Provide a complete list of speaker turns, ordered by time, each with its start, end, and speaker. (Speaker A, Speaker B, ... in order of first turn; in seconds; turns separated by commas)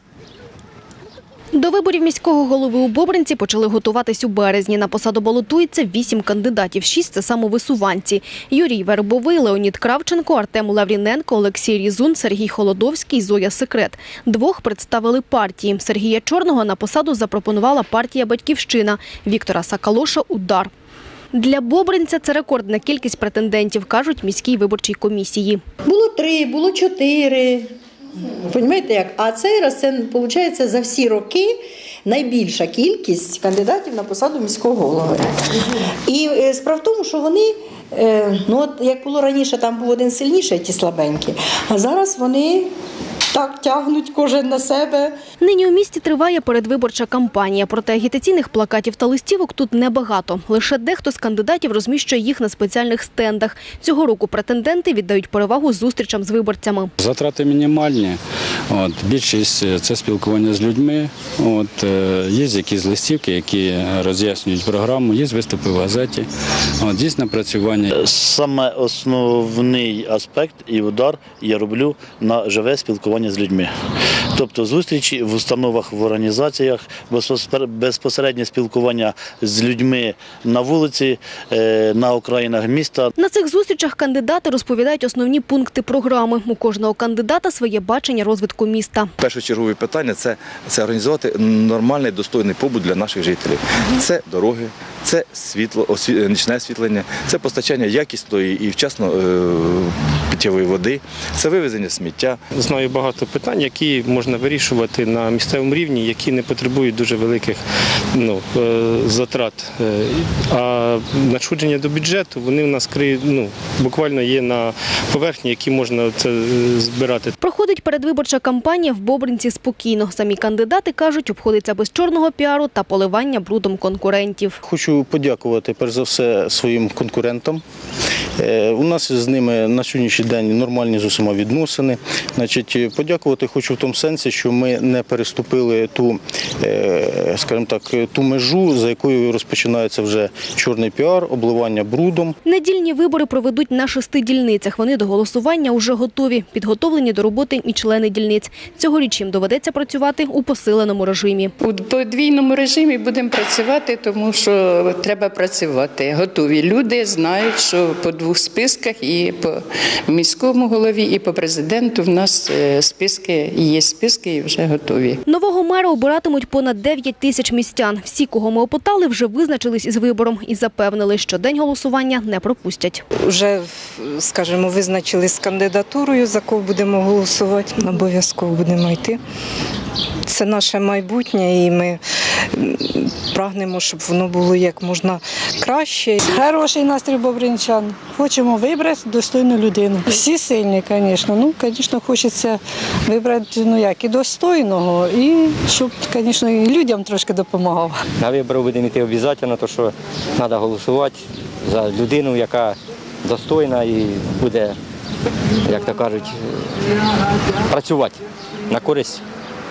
Speaker A: 1.5-20.7, Speaker A: 21.3-25.6, Speaker B: 25.8-27.7, Speaker B: 28.4-31.5, Speaker B: 32.0-35.3, Speaker B: 36.1-42.7, Speaker B: 43.3-45.1, Speaker A: 45.4-56.9, Speaker C: 57.0-58.2, Speaker C: 58.7-66.2, Speaker C: 66.8-67.9, Speaker D: 68.0-73.7, Speaker D: 74.3-83.1, Speaker A: 83.2-89.1, Speaker E: 89.2-102.4, Speaker F: 102.5-107.6, Speaker F: 108.1-117.3, Speaker A: 117.4-124.6, Speaker G: 124.6-127.6, Speaker G: 128.4-142.3, Speaker A: 142.4-151.5, Speaker H: 151.6-165.2, Speaker A: 165.3-173.0, Speaker I: 173.2-179.2, Speaker I: 180.3-182.0, Speaker I: 182.5-186.3, Speaker J: 186.3-198.0, Speaker K: 198.2-204.8, Speaker K: 205.6-206.4, Speaker K: 207.7-209.2